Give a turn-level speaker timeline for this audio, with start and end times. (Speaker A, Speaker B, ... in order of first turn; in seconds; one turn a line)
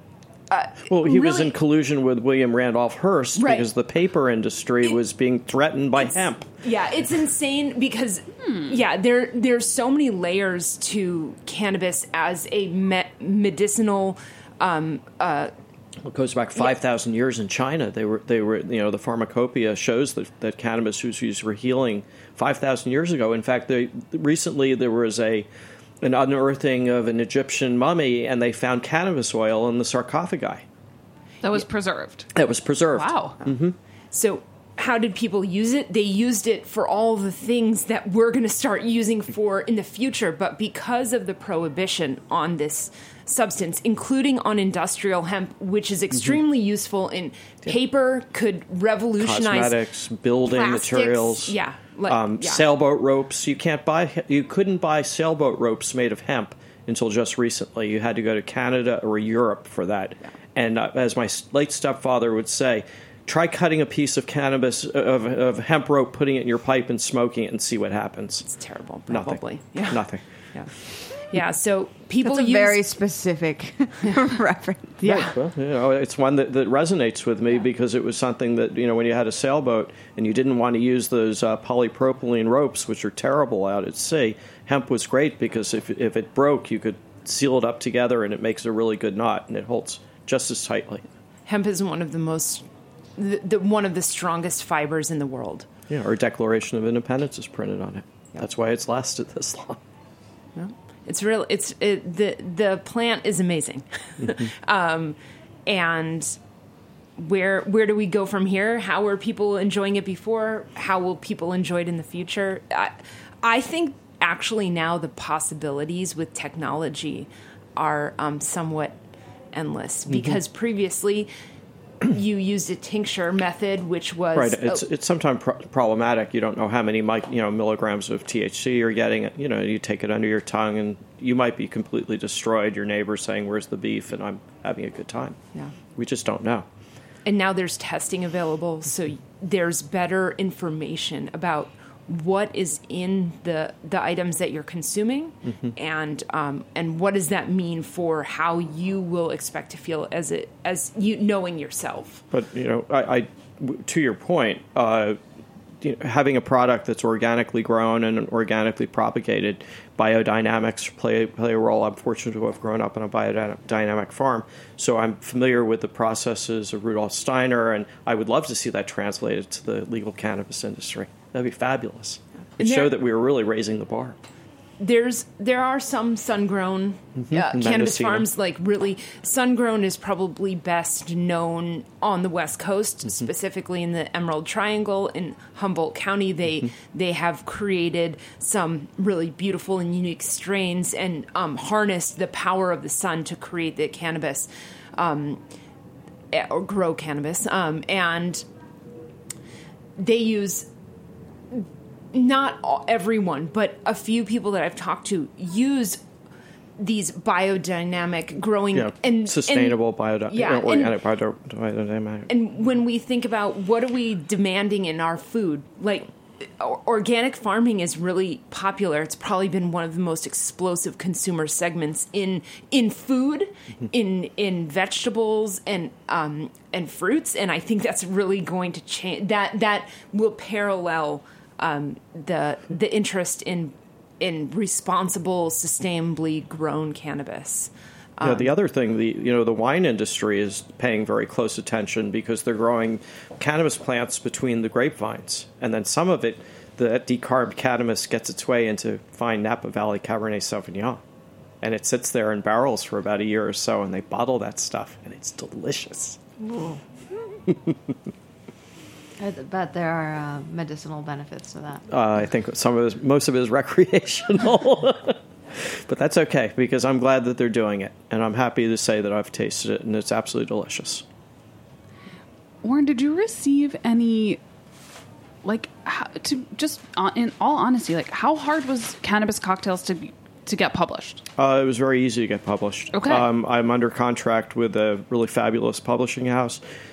Speaker A: 0.5-1.5
Speaker B: 0.9-6.5
Speaker A: 3.4-3.7
Speaker A: 6.0-15.5
Speaker C: 8.4-8.8
Speaker B: 16.1-25.5
Speaker B: 26.0-30.6
Speaker C: 31.4-32.3
Speaker B: 32.3-33.8
Speaker C: 32.9-33.4
Speaker A: 34.1-49.8
Speaker B: 49.2-51.6
Speaker A: 50.5-52.6
Speaker B: 52.1-68.5
Speaker A: 68.5-72.8
Speaker B: 69.1-70.2
Speaker D: 72.2-75.3
Speaker B: 75.0-91.0
Speaker A: 91.5-92.6
Speaker A: 93.2-95.7
Speaker B: 95.9-99.8
Speaker A: 100.5-106.4
Speaker A: 107.2-119.0
Speaker A: 119.5-121.3
Speaker B: 120.1-120.4
Speaker A: 122.1-124.8
Speaker B: 124.3-135.4
Speaker B: 136.0-136.7
Speaker A: 137.2-152.2
Speaker B: 145.5-145.7
Speaker B: 152.3-155.2
Speaker B: 155.8-174.2
Speaker A: 172.6-172.9
Speaker A: 174.8-195.4
Speaker B: 177.3-178.3
Speaker A: 196.3-198.4
Speaker A: 200.0-200.7
Speaker A: 201.5-206.0
Speaker A: 206.8-209.8
Speaker B: 208.7-212.3
Speaker A: 210.3-211.0
Speaker A: 212.3-238.5
Speaker B: 238.2-251.0
Speaker B: 251.6-256.2
Speaker D: 256.4-256.8
Speaker B: 257.5-257.7
Speaker D: 259.2-261.8
Speaker B: 261.9-271.0
Speaker C: 272.6-274.4
Speaker C: 275.4-281.2
Speaker B: 281.4-286.6
Speaker C: 282.9-283.3